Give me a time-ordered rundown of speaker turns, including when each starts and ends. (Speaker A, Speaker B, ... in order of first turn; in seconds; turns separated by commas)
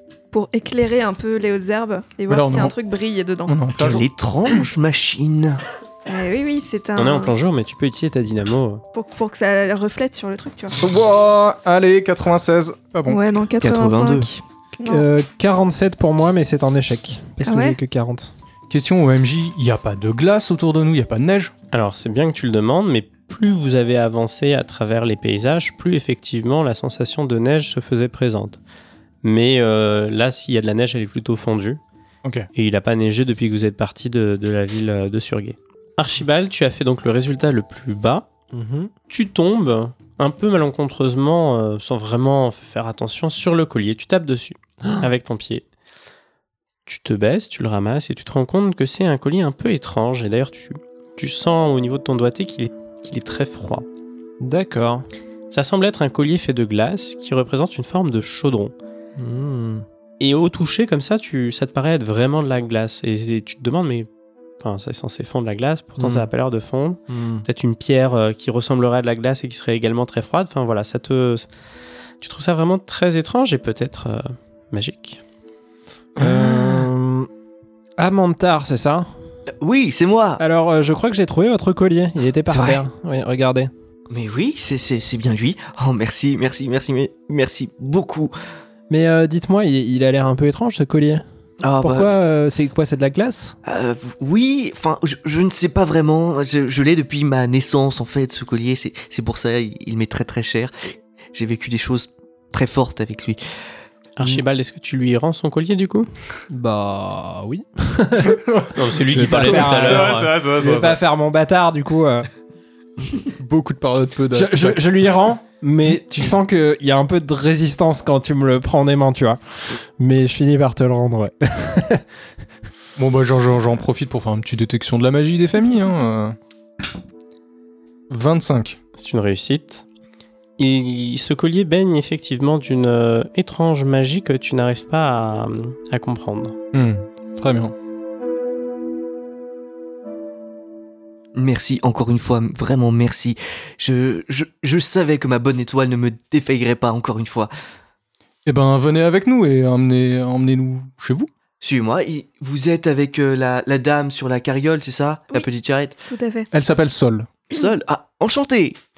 Speaker A: 0.3-3.6, Speaker B: 2.3-2.7, Speaker B: 3.5-4.0, Speaker C: 3.8-5.6, Speaker A: 6.1-7.3, Speaker D: 7.0-8.8, Speaker A: 8.9-10.8, Speaker B: 10.8-13.2, Speaker A: 13.1-15.1, Speaker C: 13.6-14.3, Speaker E: 14.8-18.3, Speaker A: 17.4-17.8, Speaker B: 18.7-21.5, Speaker D: 21.7-28.6, Speaker D: 29.2-31.8, Speaker D: 32.5-38.3, Speaker E: 38.5-38.9, Speaker D: 39.1-45.6, Speaker E: 44.8-45.1, Speaker D: 46.9-53.9, Speaker E: 54.4-55.0, Speaker D: 55.5-58.7, Speaker E: 59.2-59.8, Speaker D: 60.2-64.1, Speaker D: 64.6-71.5, Speaker E: 66.0-66.3, Speaker D: 72.2-75.2, Speaker E: 76.2-77.3, Speaker E: 78.0-79.1, Speaker C: 79.6-80.4, Speaker E: 80.4-83.7, Speaker C: 82.5-82.8, Speaker C: 84.1-88.3, Speaker E: 88.9-91.2, Speaker C: 91.6-92.1, Speaker E: 91.8-93.5, Speaker C: 93.6-103.4, Speaker D: 104.2-106.1, Speaker E: 106.5-108.4, Speaker B: 108.2-111.0, Speaker D: 108.7-110.4, Speaker E: 109.1-112.3, Speaker B: 113.2-115.0, Speaker E: 114.3-122.0, Speaker B: 123.0-126.3, Speaker B: 128.1-128.8, Speaker D: 129.0-129.8, Speaker D: 130.6-136.6, Speaker B: 136.7-137.7, Speaker C: 141.3-147.5, Speaker B: 148.4-151.3, Speaker C: 151.6-156.0, Speaker A: 156.1-156.5, Speaker B: 156.5-157.3, Speaker C: 157.5-158.8